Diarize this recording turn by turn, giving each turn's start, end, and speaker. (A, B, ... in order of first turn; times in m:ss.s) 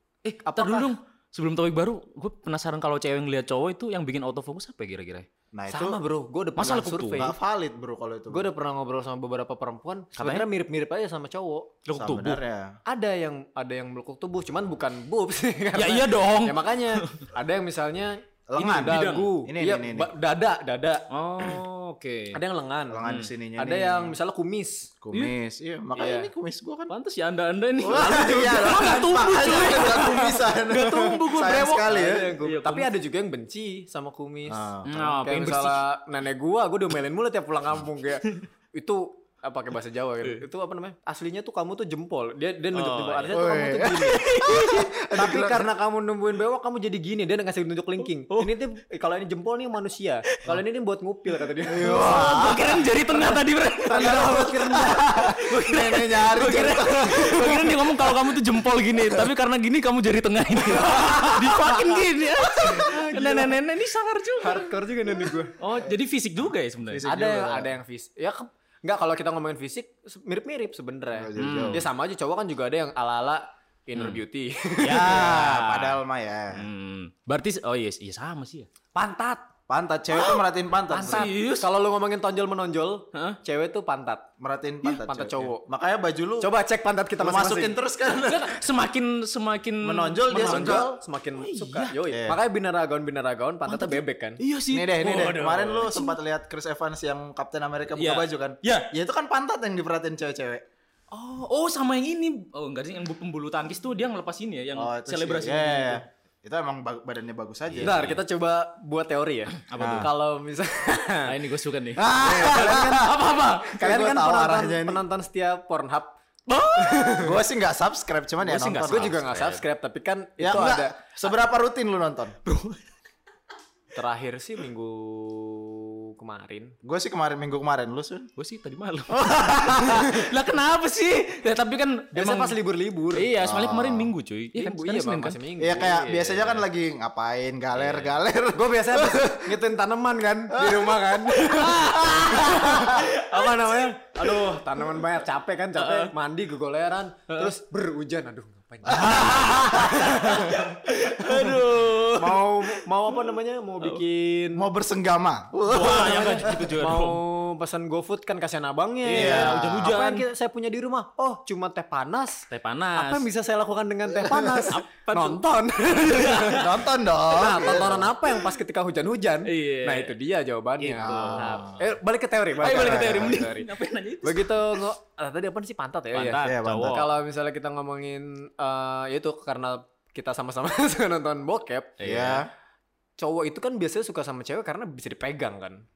0:00.2-0:05.3 A
0:00.4-0:00.9 B
0:05.5-0:06.0 C
0:05.7-0:07.3 B
0:06.6-0:07.3 A
0:07.1-0:08.5 C
0:08.3-0:11.7 B
0:10.2-0:10.5 A
0:11.8-0:12.4 A
0:11.9-0:12.8 C
0:12.9-0:21.1 B
0:15.7-0:17.2 A
0:18.5-0:20.1 C
0:18.6-0:19.3 A
0:21.1-0:22.4 A
0:22.3-0:24.9 B
0:22.9-0:24.2 C
0:23.0-0:23.3 A
0:25.0-0:26.9 C
0:26.0-0:26.3 B
0:26.9-0:31.9 A
0:27.8-0:32.3 C
0:31.8-0:52.2 B
0:32.4-0:32.9 A
0:34.5-0:35.0 C
0:34.8-0:35.8 A
0:42.7-0:44.8 A
0:43.3-0:45.7 C
0:48.3-0:48.6 A
0:51.7-0:52.9 C
0:51.7-1:07.0 A
0:53.8-0:55.1 B
0:53.9-0:58.3 C
0:59.0-0:59.3 C
1:00.8-1:02.0 C
1:02.5-1:03.6 B
1:04.4-1:05.6 B
1:06.9-1:07.7 C
1:07.0-1:15.3 B
1:11.1-1:11.9 C
1:11.4-1:11.9 A
1:13.9-1:14.2 A
1:14.8-1:16.0 A
1:15.0-1:16.7 C
1:16.5-1:18.7 A
1:18.9-1:19.4 B
1:19.7-1:21.3 C
1:20.9-1:24.2 B
1:21.0-1:21.7 A
1:24.4-1:26.5 C
1:24.8-1:25.6 B
1:26.4-1:27.8 B
1:27.2-1:28.6 C
1:28.2-1:31.9 A
1:29.8-1:31.0 C
1:30.3-1:34.4 B
1:32.1-1:32.4 C
1:33.7-1:36.2 A
1:34.7-1:40.6 C
1:38.0-1:38.9 A
1:41.1-1:46.0 A
1:44.7-1:48.1 C
1:47.7-1:48.2 A
1:47.8-1:51.4 B
1:49.6-1:50.1 A
1:49.8-1:50.1 C
1:51.2-1:53.8 A
1:52.0-1:53.2 C
1:52.1-1:53.1 B
1:53.7-1:56.2 B
1:53.7-1:55.0 C
1:56.5-1:57.3 A
1:56.8-1:57.3 B
1:57.1-1:59.2 C
1:58.4-1:59.6 A
1:58.8-2:01.0 B
2:00.4-2:02.3 C
2:02.4-2:02.8 A
2:03.9-2:06.7 B
2:06.8-2:08.3 C
2:08.4-2:12.6 A
2:09.1-2:10.3 C
2:12.1-2:13.3 B
2:13.1-2:15.4 A
2:13.4-2:14.1 C
2:14.5-2:16.6 B
2:15.6-2:19.6 C
2:17.7-2:18.1 A
2:18.5-2:34.7 B
2:20.5-2:23.0 C
2:21.4-2:25.1 A
2:25.8-2:26.1 A
2:28.9-2:30.6 C
2:28.9-2:32.8 A
2:34.6-2:36.7 C
2:35.6-2:37.2 A
2:35.7-2:46.7 B
2:39.0-2:40.2 A
2:39.1-2:39.9 C
2:42.5-2:43.3 A
2:44.3-2:46.8 A
2:46.5-2:48.2 C
2:47.2-2:53.7 B
2:49.4-2:50.1 A
2:50.8-2:51.8 A
2:51.0-2:51.8 C
2:52.6-2:54.9 A
2:52.7-2:53.5 C
2:54.2-3:02.0 B
2:56.1-2:57.1 A
2:56.4-2:57.0 C
3:02.0-3:02.4 A
3:02.0-3:02.5 C
3:03.2-3:05.8 B